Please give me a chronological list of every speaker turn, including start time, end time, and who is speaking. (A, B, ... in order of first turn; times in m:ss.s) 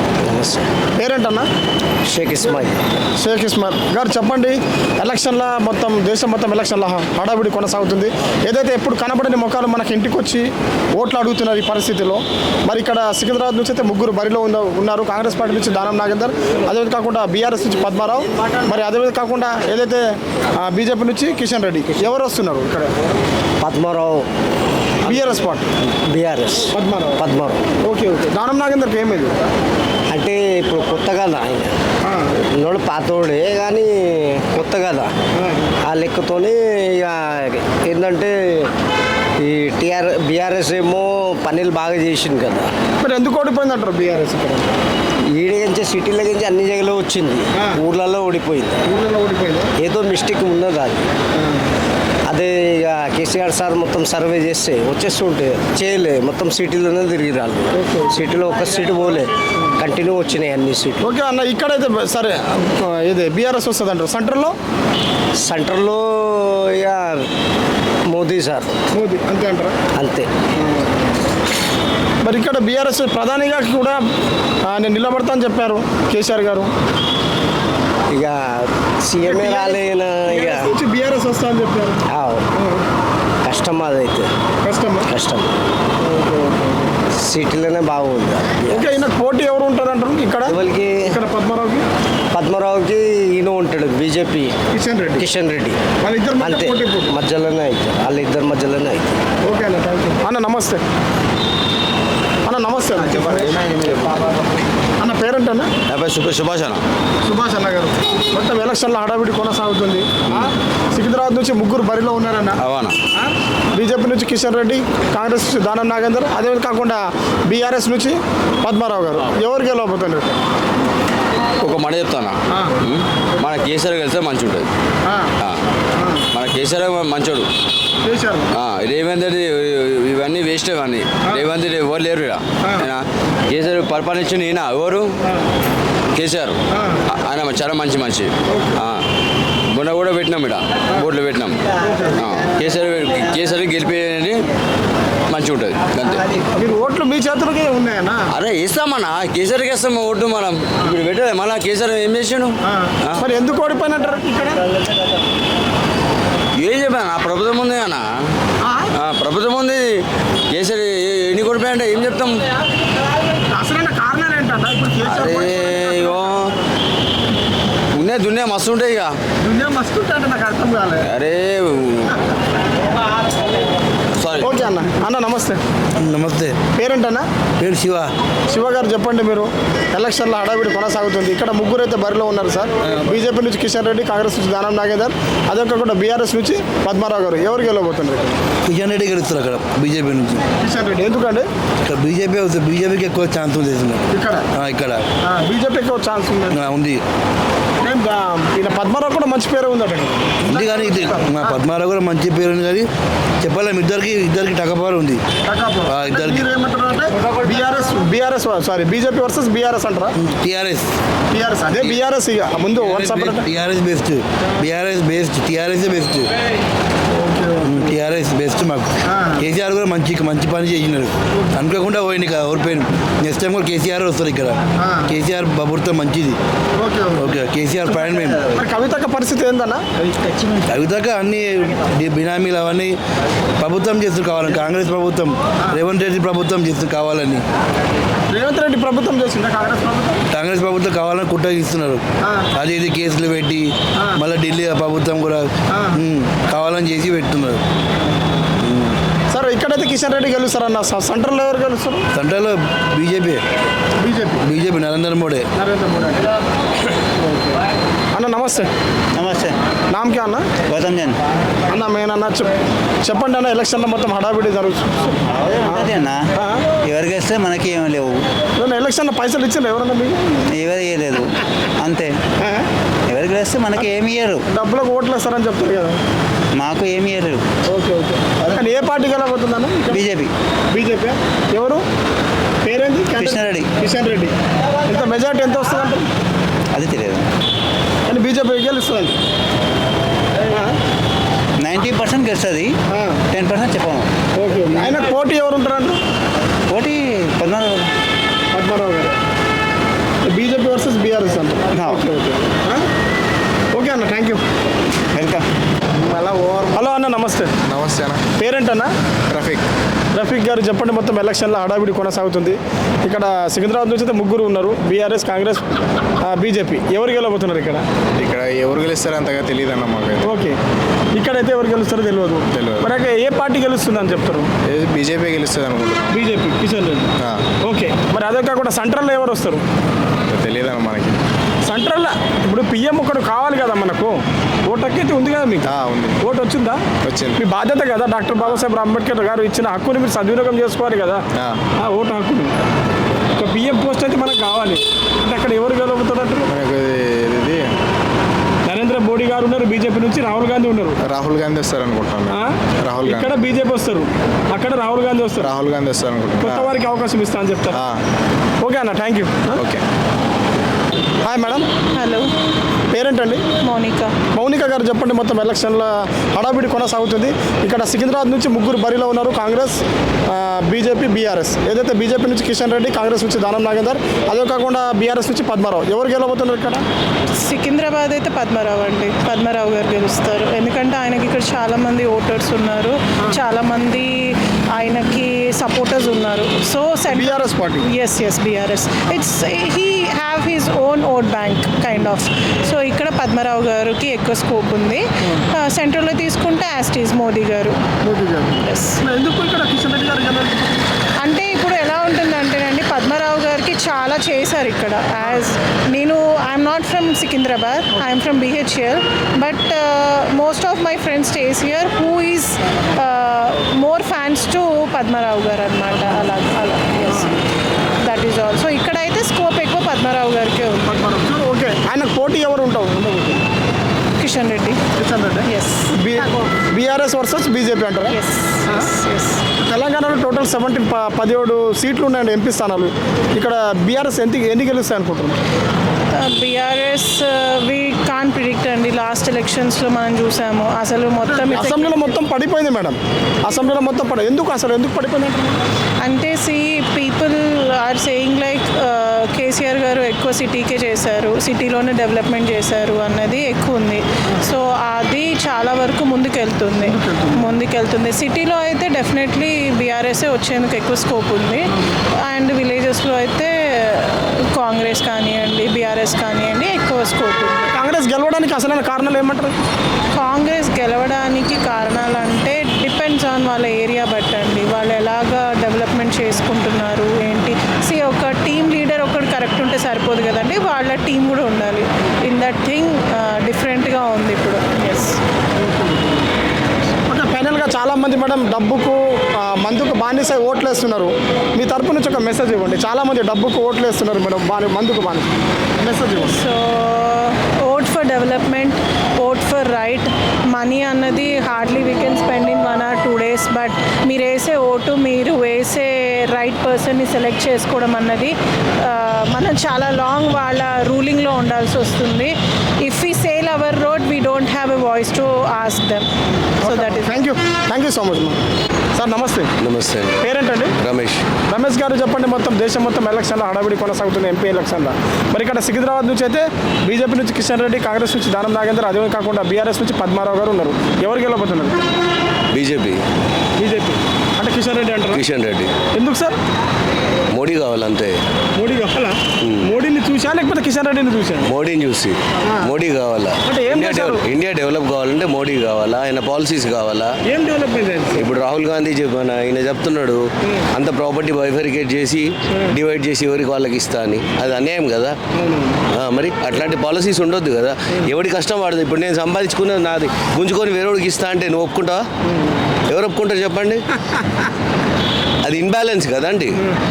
0:00.2-0:00.7 A
0:01.0-0:01.5 B
0:02.0-0:02.8 A
0:03.2-0:20.0 B
0:20.6-0:22.9 B
0:23.6-0:24.2 A
0:25.0-0:25.7 B
0:25.1-0:25.3 A
0:26.0-0:27.6 A
0:26.7-0:27.2 B
0:27.8-0:29.3 B
0:30.1-0:31.7 A
0:32.0-0:32.3 B
0:32.6-0:35.1 A
0:35.4-0:35.7 B
0:35.8-0:38.7 A
0:39.4-0:42.7 A
0:43.0-0:44.7 B
0:45.3-0:48.8 A
0:47.5-0:47.8 B
0:48.8-0:49.7 B
0:49.8-0:51.0 A
0:52.3-1:01.1 A
0:57.7-0:58.2 B
1:01.0-1:04.5 B
1:05.4-1:07.2 A
1:08.1-1:08.7 A
1:08.9-1:09.8 B
1:10.0-1:10.3 A
1:12.2-1:14.0 B
1:14.6-1:16.7 B
1:18.1-1:20.7 A
1:19.2-1:22.0 B
1:22.1-1:22.4 A
1:23.4-1:24.3 A
1:24.6-1:25.1 B
1:25.1-1:25.5 A
1:26.0-1:26.9 B
1:27.2-1:29.0 A
1:28.7-1:31.8 B
1:30.4-1:31.1 A
1:32.3-1:34.6 A
1:34.7-1:35.2 B
1:35.2-1:35.8 A
1:36.0-1:37.2 B
1:36.4-1:39.1 A
1:39.4-1:40.8 B
1:42.4-1:43.6 B
1:43.0-1:44.3 A
1:45.0-1:45.7 B
1:45.9-1:46.8 C
1:47.2-1:52.6 B
1:50.2-1:50.5 C
1:52.6-1:53.0 C
1:53.1-2:00.4 B
2:01.6-2:04.7 C
2:02.5-2:02.7 B
2:05.0-2:05.3 B
2:05.4-2:05.6 C
2:06.0-2:06.2 B
2:06.3-2:07.5 C
2:08.0-2:08.5 B
2:08.5-2:15.2 C
2:16.1-2:19.0 C
2:16.7-2:17.0 B
2:18.5-2:18.8 B
2:19.7-2:21.6 C
2:21.8-2:22.2 B
2:22.2-2:24.4 C
2:25.3-2:26.2 C
2:26.5-2:28.3 B
2:28.3-2:33.2 C
2:32.7-2:34.6 B
2:36.5-2:38.3 C
2:38.6-2:38.9 B
2:38.9-2:42.4 C
2:43.5-2:46.2 B
2:45.0-2:46.5 C
2:47.9-2:49.2 C
2:49.4-2:51.1 B
2:51.0-2:52.1 C
2:54.1-2:54.6 C
2:54.4-2:55.6 B
2:56.0-2:56.6 D
2:56.8-2:57.3 B
2:57.6-2:58.1 D
2:58.5-3:08.4 B
3:08.6-3:10.4 D
3:10.6-3:11.5 B
3:11.8-3:15.0 D
3:14.1-3:14.5 B
3:15.2-3:16.6 B
3:16.5-3:17.0 D
3:17.8-3:21.6 B
3:20.4-3:22.9 D
3:23.4-3:25.2 D
3:25.5-3:30.1 B
3:25.8-3:26.4 D
3:30.2-3:30.9 D
3:31.3-3:33.5 B
3:32.9-3:36.3 D
3:37.1-3:37.9 B
3:37.6-3:46.4 D
3:39.1-3:39.4 B
3:44.8-3:45.1 B
3:46.8-3:47.4 B
3:47.1-3:48.4 D
3:48.3-3:49.8 B
3:50.1-3:50.6 E
3:50.6-3:53.0 D
3:53.6-3:57.4 D
3:58.3-4:00.2 B
4:00.3-4:02.0 D
4:02.2-4:02.5 B
4:02.5-4:07.6 D
4:04.0-4:04.2 B
4:05.7-4:06.0 B
4:08.6-4:09.0 D
4:09.3-4:12.0 B
4:12.1-4:13.4 D
4:14.0-4:14.4 B
4:14.4-4:15.4 D
4:15.6-4:16.3 B
4:17.2-4:17.6 B
4:18.1-4:18.7 B
4:19.1-4:19.5 E
4:19.9-4:20.4 B
4:20.6-4:21.2 E
4:21.7-4:22.5 B
4:23.0-4:26.6 B
4:25.3-4:28.2 E
4:28.6-4:30.4 B
4:30.5-4:32.1 E
4:32.4-4:32.7 B
4:33.1-4:34.4 E
4:34.5-4:36.0 B
4:36.5-4:37.4 E
4:37.7-4:40.0 B
4:39.9-4:40.3 E
4:40.7-4:41.8 B
4:42.6-4:44.3 B
4:43.2-4:43.7 E
4:44.8-4:46.1 B
4:46.7-4:47.3 E
4:48.1-4:49.2 B
4:50.5-4:50.7 B
4:51.6-4:52.7 E
4:52.9-4:53.2 B
4:53.3-4:54.1 E
4:54.4-4:56.0 B
4:56.7-4:57.9 E
4:58.5-4:59.1 B
5:00.2-5:02.8 B
5:01.7-5:02.0 E
5:03.7-5:04.4 B
5:05.1-5:05.4 E
5:06.0-5:07.5 B
5:07.7-5:08.2 F
5:08.4-5:08.9 B
5:09.3-5:09.6 F
5:10.1-5:15.6 B
5:16.2-5:17.8 B
5:18.2-5:20.3 F
5:20.2-5:20.6 B
5:21.1-5:24.5 B
5:22.5-5:22.9 F
5:24.7-5:26.1 F
5:26.1-5:27.1 B
5:27.6-5:29.6 B
5:30.3-5:31.2 F
5:31.6-5:36.8 B
5:35.7-5:36.2 F
5:37.0-5:37.4 F
5:37.4-5:41.2 B
5:41.8-5:42.5 B
5:43.4-5:46.5 B
5:46.5-5:47.7 F
5:48.6-5:51.0 B
5:51.1-5:53.3 F
5:52.3-5:55.5 B
5:55.4-5:56.7 F
5:56.4-5:57.8 B
5:57.7-5:58.0 F
5:58.6-5:59.7 B
6:01.2-6:01.7 B
6:01.9-6:02.3 G
6:02.9-6:03.5 B
6:03.6-6:04.2 G
6:04.3-6:16.8 B
6:17.3-6:37.8 G
6:27.1-6:27.9 B
6:31.9-6:32.1 B
6:38.0-6:40.9 B
6:38.6-6:39.0 G
6:41.2-6:57.4 G
6:55.9-6:56.3 B
6:57.1-6:57.3 B
6:58.0-7:01.0 G
7:00.9-7:03.4 B
7:04.2-7:04.8 G
7:04.9-7:08.9 B
7:05.4-7:06.5 G
7:08.1-7:09.4 G
7:09.6-7:15.4 B
7:16.1-7:22.1 G
7:21.2-7:25.6 B
7:26.0-7:41.7 G
7:36.8-7:37.6 B
7:42.2-7:47.7 G
7:47.7-7:49.5 B
7:50.1-8:05.2 G
8:05.6-8:06.2 B
8:07.1-8:16.4 B
8:16.2-8:36.1 G
8:36.6-8:38.4 B
8:36.6-8:37.1 G
8:38.9-8:39.5 B
8:39.6-8:40.2 H
8:40.2-8:40.7 B
8:40.8-8:41.2 H
8:41.5-8:51.8 B
8:52.5-8:53.0 H
8:53.6-8:55.2 B
8:55.1-8:55.7 H
8:55.9-8:56.4 B
8:57.3-8:58.2 H
8:58.6-9:01.5 B
8:59.4-8:59.6 H
9:01.4-9:07.1 H
9:02.4-9:02.7 B
9:03.4-9:04.2 B
9:07.2-9:08.3 B
9:08.1-9:10.2 H
9:10.7-9:15.2 H
9:15.3-9:15.8 B
9:15.9-9:22.0 H
9:22.3-9:22.6 B
9:22.9-9:23.8 H
9:24.1-9:24.4 B
9:25.4-9:26.5 H